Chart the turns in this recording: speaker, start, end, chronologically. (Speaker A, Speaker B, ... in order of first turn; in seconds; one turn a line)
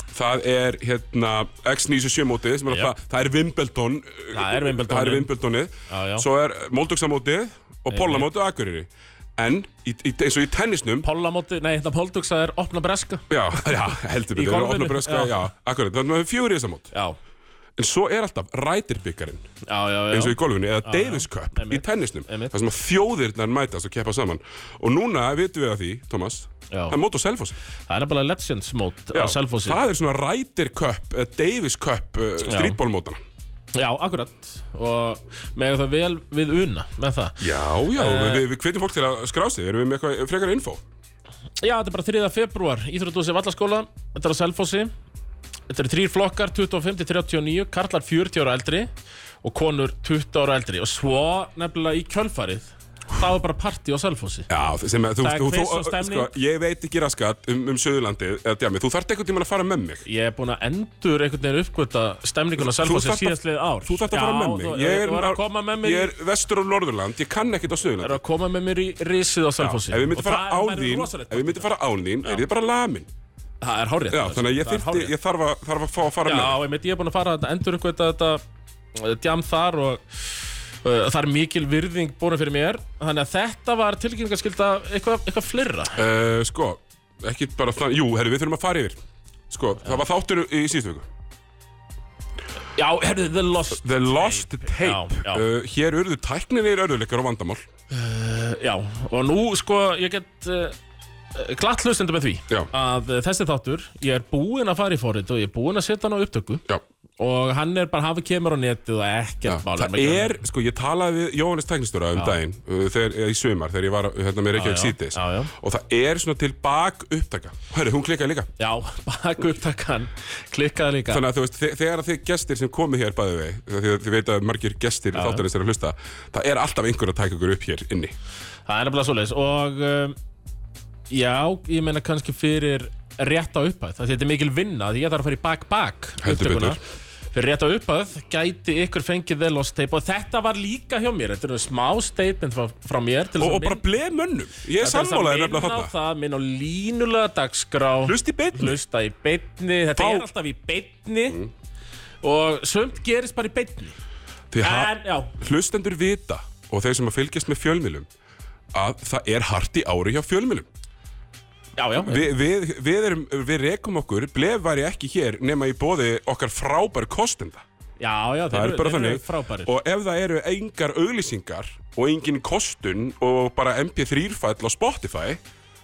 Speaker A: 0.1-11.1
Speaker B: 4.3-5.3
Speaker B: 5.9-6.3
Speaker B: 7.9-8.3
Speaker B: 11.0-15.4
Speaker A: 13.3-16.9
Speaker B: 16.9-17.2
Speaker A: 17.8-19.4
Speaker B: 19.6-22.5
Speaker A: 20.1-27.6
Speaker B: 26.7-27.0
Speaker B: 27.9-29.8
Speaker A: 29.1-33.2
Speaker B: 32.4-32.8
Speaker B: 33.7-37.4
Speaker A: 37.4-40.8
Speaker B: 37.9-38.4
Speaker B: 41.6-44.9
Speaker B: 45.7-48.9
Speaker B: 49.4-54.5
Speaker A: 54.5-60.0
Speaker B: 55.2-56.4
Speaker B: 60.0-66.1
Speaker A: 62.5-68.2
Speaker B: 68.0-71.7
Speaker A: 69.6-73.1
Speaker B: 73.6-75.1
Speaker A: 74.1-76.6
Speaker B: 76.2-78.4
Speaker B: 78.9-86.0
Speaker A: 85.9-89.0
Speaker A: 89.5-91.1
Speaker B: 92.8-95.4
Speaker A: 93.7-97.7
Speaker B: 97.9-100.7
Speaker B: 101.3-106.6
Speaker B: 107.2-110.4
Speaker A: 109.5-118.5
Speaker B: 114.5-115.5
Speaker B: 118.6-121.2
Speaker A: 121.1-128.1
Speaker B: 125.1-125.4
Speaker B: 128.7-130.2
Speaker B: 131.1-136.8
Speaker A: 136.2-136.8
Speaker B: 137.3-143.8
Speaker A: 143.4-145.9
Speaker B: 144.8-151.4
Speaker A: 148.0-148.8
Speaker A: 150.0-150.3
Speaker B: 152.2-153.9
Speaker A: 154.5-158.1
Speaker B: 154.6-155.3
Speaker A: 158.7-160.7
Speaker B: 161.8-162.3
Speaker A: 162.0-167.6
Speaker B: 168.0-169.7
Speaker A: 168.5-175.4